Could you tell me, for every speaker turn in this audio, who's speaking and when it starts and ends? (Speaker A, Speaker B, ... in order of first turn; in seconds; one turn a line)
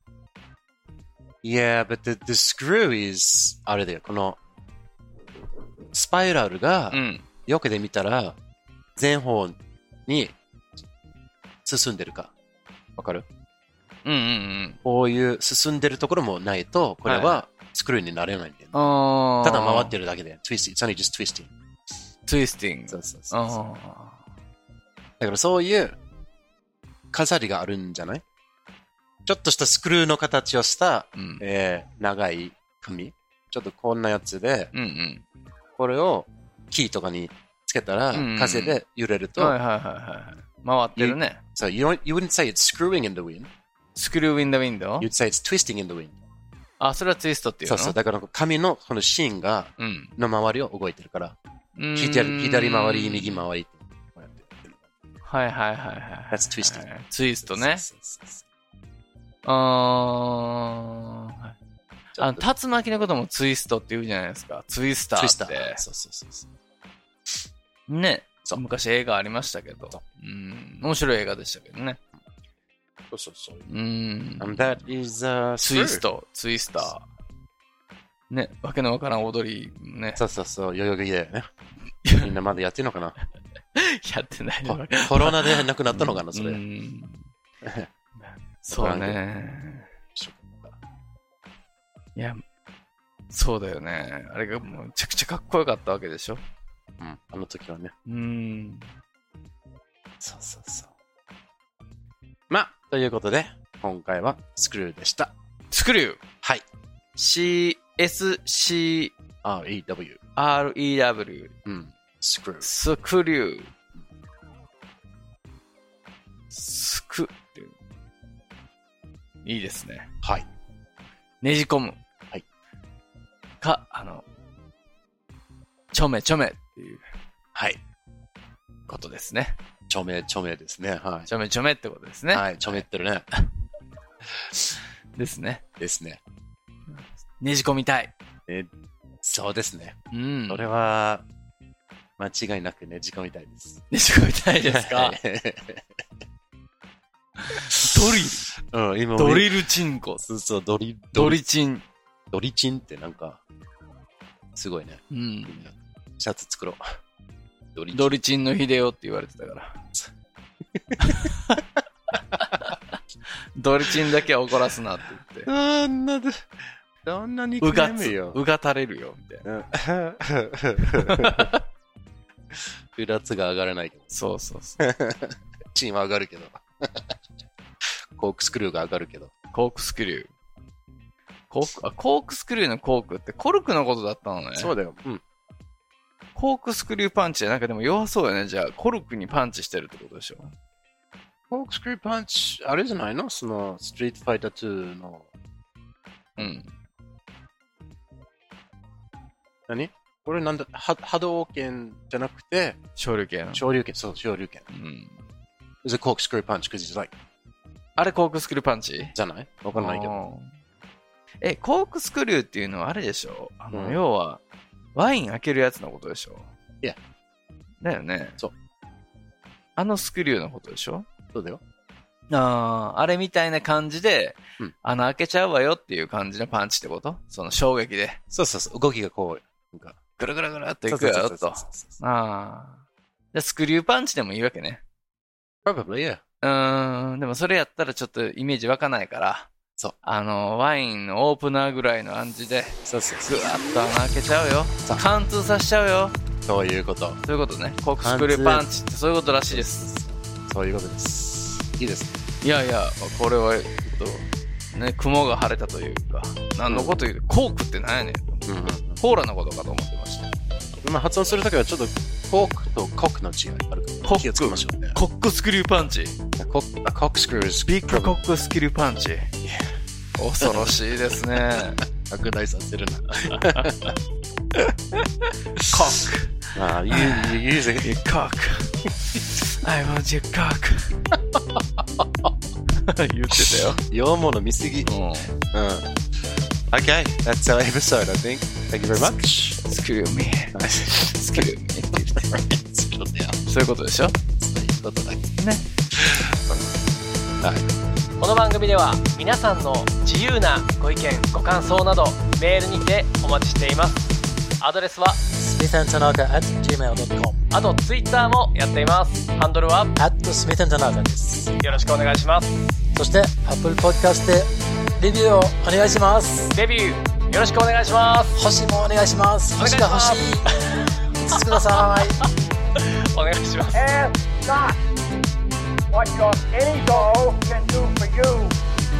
Speaker A: 1.4-4.4
Speaker A: 5.9-8.4
Speaker B: 6.9-7.2
Speaker A: 8.9-10.4
Speaker A: 11.6-12.3
Speaker A: 13.0-13.2
Speaker B: 14.0-14.8
Speaker A: 14.8-18.8
Speaker B: 17.0-17.4
Speaker B: 18.7-19.9
Speaker A: 19.4-21.5
Speaker B: 22.3-24.2
Speaker A: 22.9-23.6
Speaker A: 25.2-25.9
Speaker A: 27.1-28.2
Speaker A: 29.2-34.7
Speaker B: 31.1-31.4
Speaker B: 34.7-35.2
Speaker A: 35.8-39.6
Speaker B: 38.1-38.8
Speaker B: 39.4-41.4
Speaker A: 41.0-43.5
Speaker B: 44.0-45.1
Speaker A: 45.0-46.2
Speaker B: 46.8-48.0
Speaker A: 47.6-51.3
Speaker B: 49.8-50.1
Speaker B: 51.7-53.4
Speaker A: 52.0-54.8
Speaker B: 55.2-57.8
Speaker A: 56.3-56.9
Speaker A: 57.4-58.4
Speaker B: 59.4-61.5
Speaker A: 62.1-62.5
Speaker B: 62.2-65.8
Speaker A: 65.2-66.5
Speaker B: 67.9-72.0
Speaker A: 73.1-73.7
Speaker B: 73.7-74.8
Speaker A: 74.4-76.0
Speaker B: 75.6-77.0
Speaker B: 78.3-80.2
Speaker A: 80.2-81.5
Speaker B: 82.0-82.3
Speaker A: 82.2-83.2
Speaker B: 83.7-87.3
Speaker A: 84.6-86.6
Speaker A: 87.6-87.9
Speaker B: 88.2-89.9
Speaker A: 88.7-89.2
Speaker A: 90.1-90.8
Speaker B: 92.2-92.4
Speaker B: 93.3-96.4
Speaker A: 97.0-97.9
Speaker B: 98.0-98.9
Speaker A: 100.2-100.9
Speaker A: 102.5-105.3
Speaker B: 105.7-106.2
Speaker B: 107.2-109.1
Speaker A: 109.4-110.2
Speaker B: 110.3-111.5
Speaker A: 111.6-112.7
Speaker B: 112.6-113.7
Speaker B: 116.5-117.7
Speaker B: 119.4-120.1
Speaker A: 120.2-120.5
Speaker B: 121.4-122.0
Speaker B: 123.6-124.2
Speaker B: 125.9-127.0
Speaker B: 128.9-129.6
Speaker A: 129.9-131.3
Speaker B: 131.3-133.4
Speaker A: 132.3-133.3
Speaker B: 135.1-135.6
Speaker A: 135.8-136.2
Speaker B: 137.4-138.1
Speaker A: 139.2-141.2
Speaker B: 140.1-140.6
Speaker A: 142.2-143.8
Speaker B: 143.9-145.2
Speaker A: 144.6-145.8
Speaker B: 147.5-148.5
Speaker A: 147.5-149.5
Speaker B: 149.2-150.2
Speaker A: 150.2-151.4
Speaker B: 151.1-151.8
Speaker A: 152.3-153.4
Speaker A: 154.6-156.9
Speaker B: 155.1-155.6
Speaker A: 157.7-158.2
Speaker B: 157.9-159.8
Speaker A: 160.7-161.3
Speaker B: 161.0-161.6
Speaker A: 162.3-162.6
Speaker B: 162.4-162.9
Speaker B: 163.6-165.5
Speaker A: 165.4-168.4
Speaker B: 167.6-169.4
Speaker A: 169.4-171.5
Speaker B: 170.8-171.6
Speaker A: 172.9-174.1
Speaker B: 174.1-174.8
Speaker A: 174.8-177.2
Speaker A: 177.9-179.3
Speaker B: 179.5-180.3
Speaker B: 181.5-184.7
Speaker A: 184.6-185.2
Speaker B: 186.3-190.5
Speaker A: 191.5-195.3
Speaker B: 196.4-196.7
Speaker A: 199.7-202.8
Speaker B: 203.0-203.6
Speaker A: 203.5-204.6
Speaker B: 204.7-205.2
Speaker A: 205.8-207.1
Speaker B: 208.0-209.1
Speaker A: 209.1-210.2
Speaker B: 209.7-210.5
Speaker B: 211.4-214.4
Speaker A: 213.7-214.0
Speaker B: 214.9-216.5
Speaker B: 217.8-218.4
Speaker B: 219.8-221.1
Speaker A: 221.3-221.6
Speaker B: 222.3-228.2
Speaker A: 228.3-230.0
Speaker B: 230.2-234.8
Speaker A: 230.9-232.0
Speaker A: 235.6-236.2
Speaker B: 236.4-239.5
Speaker B: 240.0-246.2
Speaker A: 242.8-243.4
Speaker A: 246.4-247.2
Speaker B: 247.2-249.8
Speaker A: 248.0-248.7
Speaker A: 249.5-252.2
Speaker B: 252.4-260.3
Speaker A: 256.7-257.0
Speaker A: 258.4-259.0
Speaker A: 260.8-265.0
Speaker B: 264.0-266.2
Speaker A: 266.4-268.1
Speaker B: 267.6-269.3
Speaker A: 269.4-269.7
Speaker B: 270.2-271.8
Speaker A: 270.4-270.7
Speaker A: 272.0-273.9
Speaker B: 273.3-273.8
Speaker B: 274.5-281.0
Speaker A: 276.5-277.9
Speaker A: 281.1-282.3
Speaker B: 282.7-283.8
Speaker A: 283.4-284.9
Speaker B: 284.8-285.3
Speaker A: 285.5-285.9
Speaker A: 286.7-289.6
Speaker B: 289.6-292.4
Speaker A: 290.5-291.4
Speaker A: 292.0-293.4
Speaker B: 293.5-294.2
Speaker A: 294.4-295.4
Speaker B: 295.4-295.6
Speaker A: 295.9-296.7
Speaker C: 298.2-305.2
Speaker D: 305.3-307.4
Speaker C: 307.5-309.9
Speaker D: 310.0-311.6
Speaker C: 311.6-312.7
Speaker D: 312.9-316.5
Speaker C: 316.5-318.4
Speaker D: 318.4-320.6
Speaker C: 319.6-320.2
Speaker D: 321.2-322.2
Speaker C: 323.1-323.8
Speaker E: 323.7-324.8
Speaker E: 325.9-328.6